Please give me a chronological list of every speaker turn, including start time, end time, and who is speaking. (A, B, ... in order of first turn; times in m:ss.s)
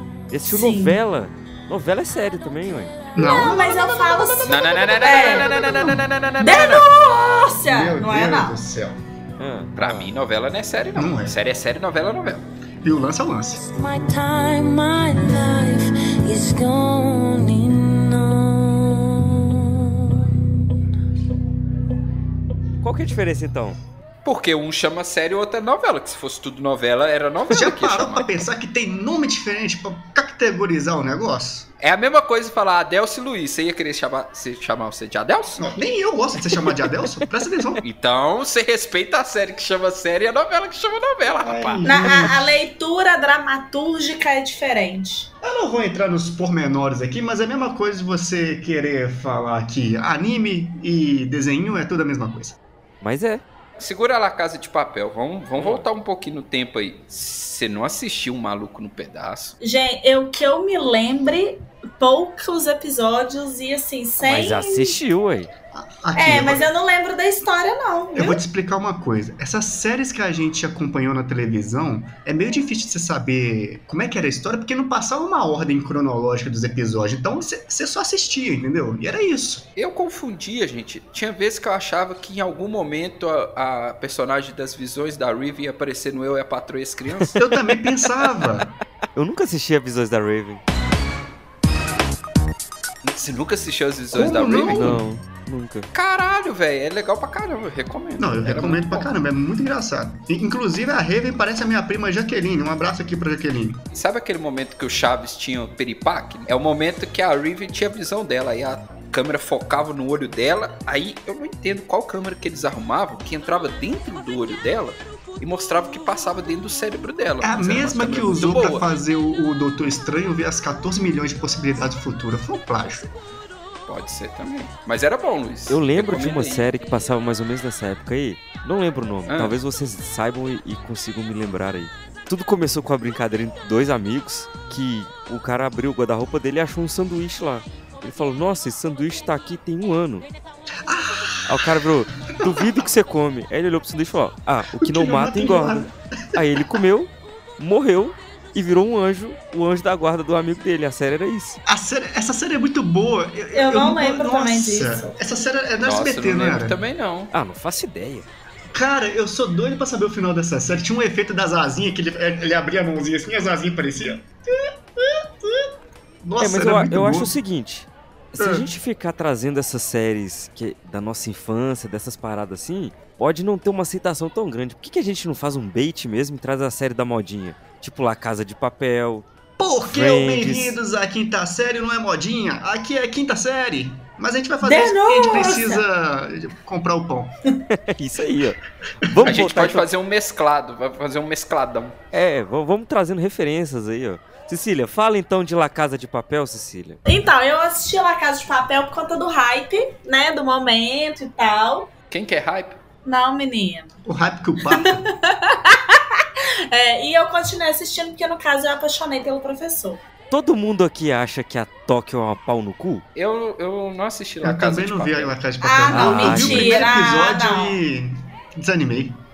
0:00.3-0:02.9 A
0:00.5-0:01.0 B
0:03.1-0:06.0 C
0:03.2-0:05.6 B
0:04.4-0:06.8 D
0:06.4-0:08.6 B
0:07.6-0:09.0 C
0:09.4-0:10.1 A
0:09.8-0:12.5 D
0:10.9-0:11.4 C
0:12.8-0:13.6 C
0:13.6-0:20.3 E
0:22.8-0:23.8 A
0:24.2-0:28.3 D
0:27.5-0:31.7 C
0:31.8-0:35.6 D
0:35.6-0:37.8 C
0:37.8-0:41.8 D
0:41.4-0:42.6 C
0:41.8-0:45.3 B
0:45.4-0:52.6 C
0:53.0-0:53.4 A
0:53.8-0:59.5 D
0:55.6-0:55.8 A
0:59.6-1:05.0 B
1:04.2-1:05.5 A
1:05.7-1:06.7 C
1:06.1-1:08.4 B
1:08.1-1:19.7 C
1:19.8-1:27.4 D
1:27.4-1:28.7 C
1:29.2-1:30.6 A
1:33.0-1:34.9 D
1:34.1-1:35.0 C
1:34.7-1:35.9 A
1:35.9-1:39.1 D
1:38.2-1:43.8 C
1:43.9-1:58.8 D
1:57.4-2:03.1 C
2:03.9-2:06.7 D
2:05.7-2:20.3 A
2:09.3-2:09.6 D
2:20.8-2:22.8 C
2:21.5-2:31.6 A
2:24.8-2:26.6 C
2:31.6-2:36.8 C
2:33.5-2:35.1 B
2:35.8-2:37.3 D
2:37.3-2:38.3 A
2:38.7-2:45.7 C
2:46.2-2:47.3 C
2:46.4-2:59.2 A
2:48.4-2:48.7 C
2:59.6-3:07.3 C
2:59.9-3:00.8 A
3:04.6-3:05.8 B
3:07.7-3:09.8 A
3:09.1-3:09.3 C
3:09.2-3:12.0 D
3:12.1-3:17.0 A
3:17.0-3:21.9 B
3:22.1-3:22.8 D
3:23.0-3:23.9 B
3:24.0-3:25.0 C
3:24.7-3:30.0 B
3:30.3-3:33.0 A
3:33.2-3:35.3 D
3:34.4-3:39.2 C
3:35.6-3:37.8 B
3:35.9-3:36.8 A